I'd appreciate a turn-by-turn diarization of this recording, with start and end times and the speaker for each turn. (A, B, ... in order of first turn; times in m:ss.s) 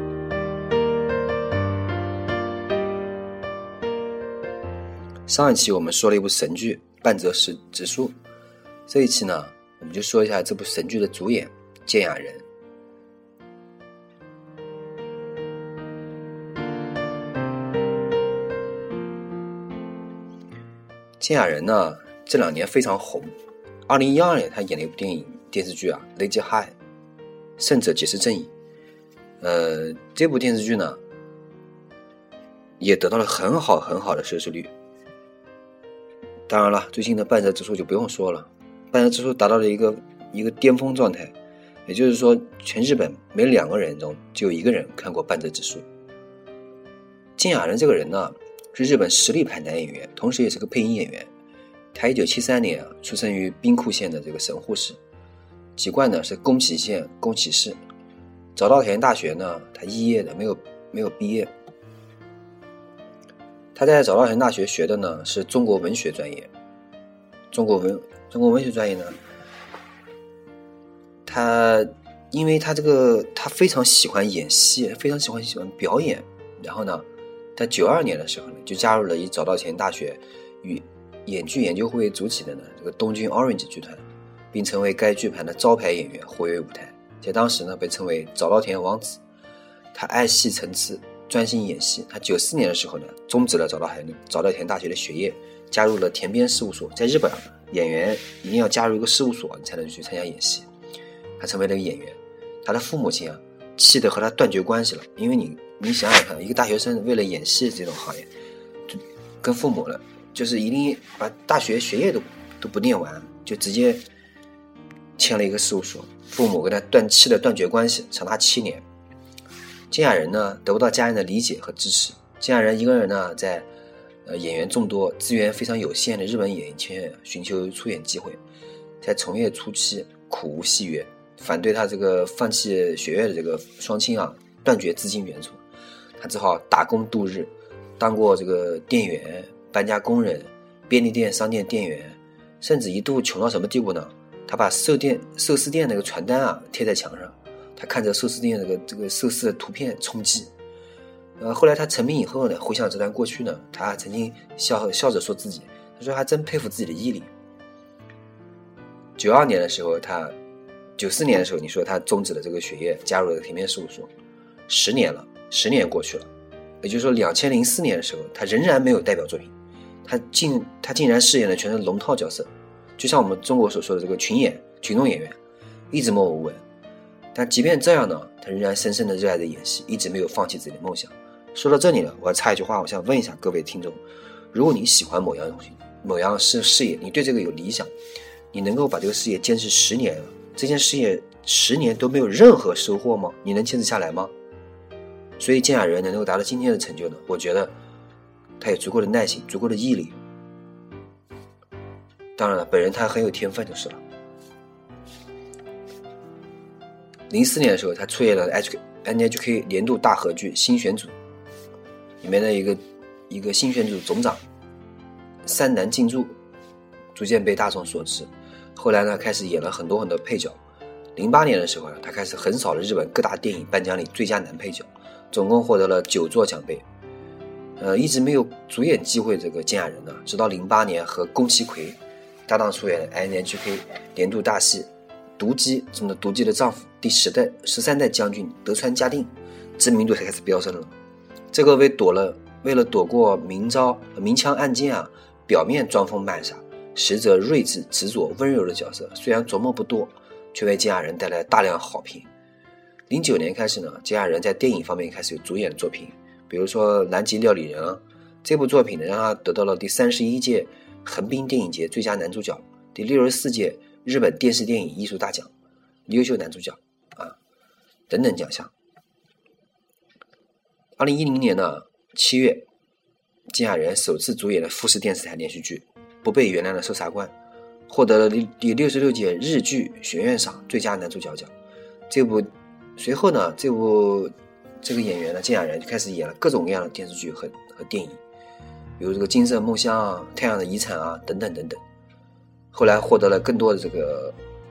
0:05.3-0:08.2 A
0:08.9-0:12.4 A
0:21.2-0:23.3 A
0:23.9-0:26.8 A
0:27.6-0:28.5 A
0:29.4-0:31.0 A
0:32.8-0:34.7 A
0:36.5-0:41.3 A
0:41.9-0:45.8 A
0:47.4-0:51.3 A
0:51.9-0:55.0 A
0:55.8-0:57.8 A
0:58.6-1:01.5 A
1:03.7-1:06.5 A
1:07.5-1:09.2 A
1:11.2-1:29.2 A
1:29.9-1:40.7 A
1:41.4-1:48.3 A
1:48.9-1:54.0 A
1:55.2-1:58.8 A
1:59.9-2:03.7 A
2:04.3-2:08.4 A
2:09.0-2:15.6 A
2:16.2-2:30.5 A
2:31.4-2:37.3 A
2:39.2-2:40.3 A
2:41.0-2:44.1 A
2:44.7-2:46.3 A
2:46.8-2:49.5 A
2:50.0-2:55.4 A
2:55.9-2:56.6 A
2:57.3-3:04.0 A
3:04.5-3:07.9 A
3:08.5-3:14.3 A
3:15.4-3:17.7 A
3:18.6-3:20.2 A
3:22.4-3:24.0 A
3:27.3-3:31.1 A
3:32.2-3:34.4 A
3:35.4-3:36.4 A
3:37.1-3:40.6 A
3:41.2-3:46.8 A
3:47.8-4:00.9 A
4:01.5-4:12.3 A
4:13.1-4:25.5 A
4:26.1-4:27.4 A
4:28.1-4:28.7 A
4:31.0-4:32.6 A
4:33.5-4:37.3 A
4:37.9-4:41.5 A
4:42.1-4:48.2 A
4:49.0-4:51.8 A
4:52.7-4:54.4 A